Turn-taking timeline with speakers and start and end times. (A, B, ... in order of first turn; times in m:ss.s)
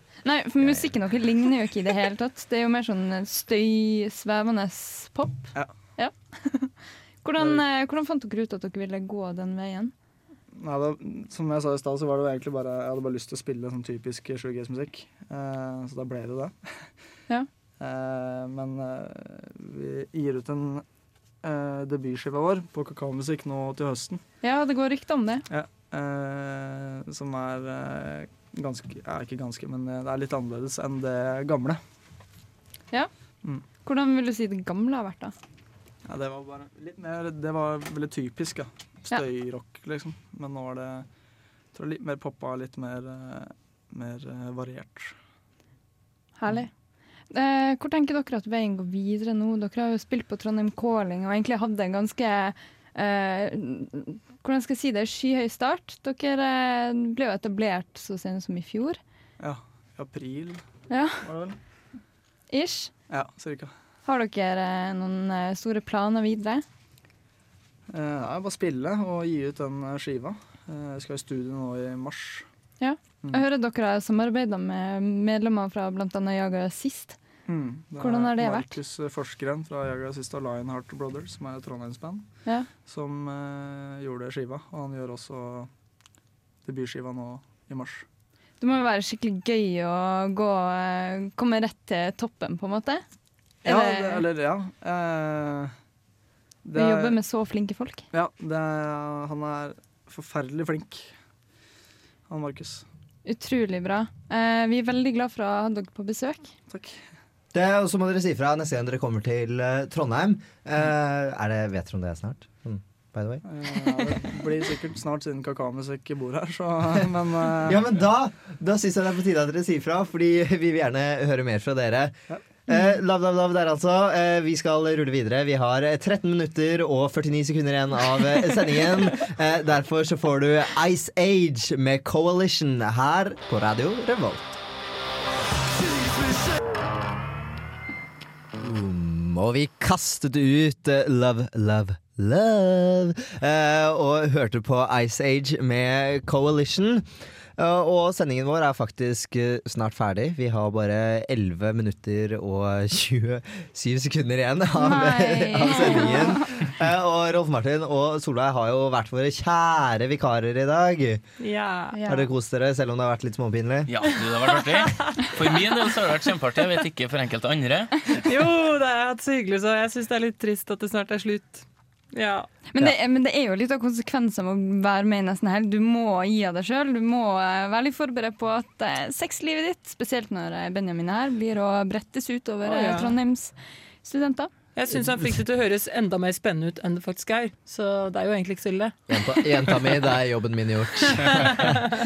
0:00.2-0:09.9 A
0:05.5-0:05.9 B
0:07.4-0:07.6 B
0:10.5-0:17.0 B
0:17.8-0:20.9 B
0:21.4-0:24.2 B
0:24.4-0:25.5 A
0:25.5-0:31.8 B
0:33.7-0:35.3 A
0:36.1-0:41.1 B
0:41.7-0:45.2 B
0:46.4-0:46.7 A
0:47.3-0:59.0 A
0:59.4-1:00.7 B
1:00.9-1:01.3 A
1:01.2-1:01.6 B
1:02.5-1:02.9 A
1:03.1-1:03.7 B
1:04.0-1:06.6 A
1:07.9-1:12.5 B
1:12.8-1:17.2 A
1:17.5-1:25.7 B
1:18.0-1:18.7 A
1:22.4-1:22.7 A
1:26.6-1:28.0 B
1:28.6-1:33.0 A
1:33.6-1:34.3 A
1:33.6-1:35.8 B
1:36.6-1:37.2 B
1:36.8-1:38.1 A
1:38.1-1:41.1 B
1:42.3-1:42.9 B
1:43.3-1:46.5 A
1:46.7-1:47.0 B
1:47.5-1:53.4 C
1:53.4-1:57.8 B
1:57.6-2:02.2 C
2:02.7-2:14.6 C
2:18.6-2:27.1 C
2:27.6-2:41.2 C
2:34.8-2:36.6 A
2:41.4-2:42.0 D
2:41.9-2:42.3 A
2:42.1-2:43.9 C
2:43.9-2:48.0 E
2:48.2-2:52.5 D
2:52.7-3:04.5 A
3:02.6-3:03.2 D
3:04.8-3:09.9 D
3:09.1-3:11.6 C